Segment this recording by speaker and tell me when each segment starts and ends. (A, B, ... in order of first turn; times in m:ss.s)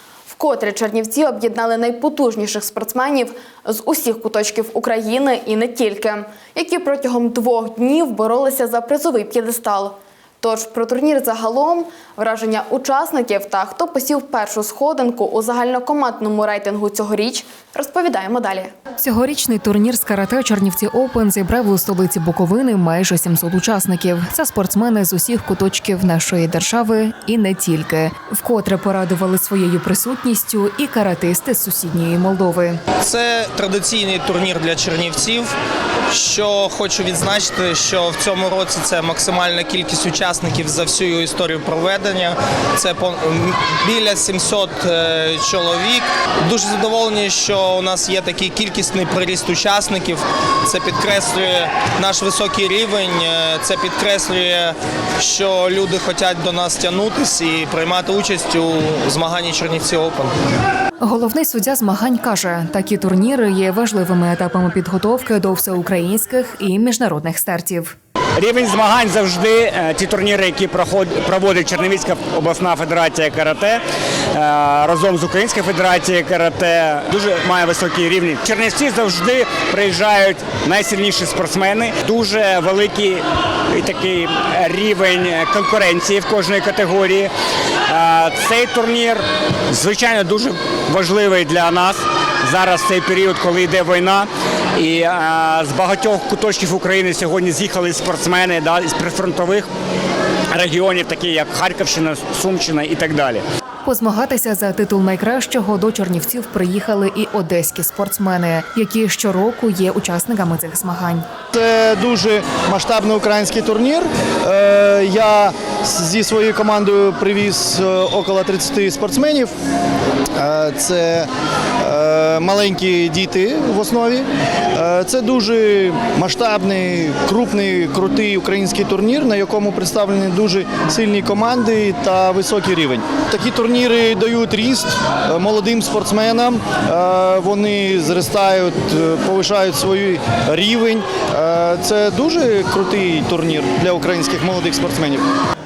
0:00.3-0:18.7 A
0:19.0-0:32.8 B
0:33.0-0:35.5 C
0:36.1-1:00.3 C
1:01.0-1:07.9 B
1:08.4-1:13.8 D
1:14.3-1:27.3 D
1:27.9-1:39.7 D
1:40.5-1:43.4 D
1:43.8-1:51.3 B
1:51.5-1:59.5 E
2:00.4-2:01.3 E
2:01.8-2:25.2 E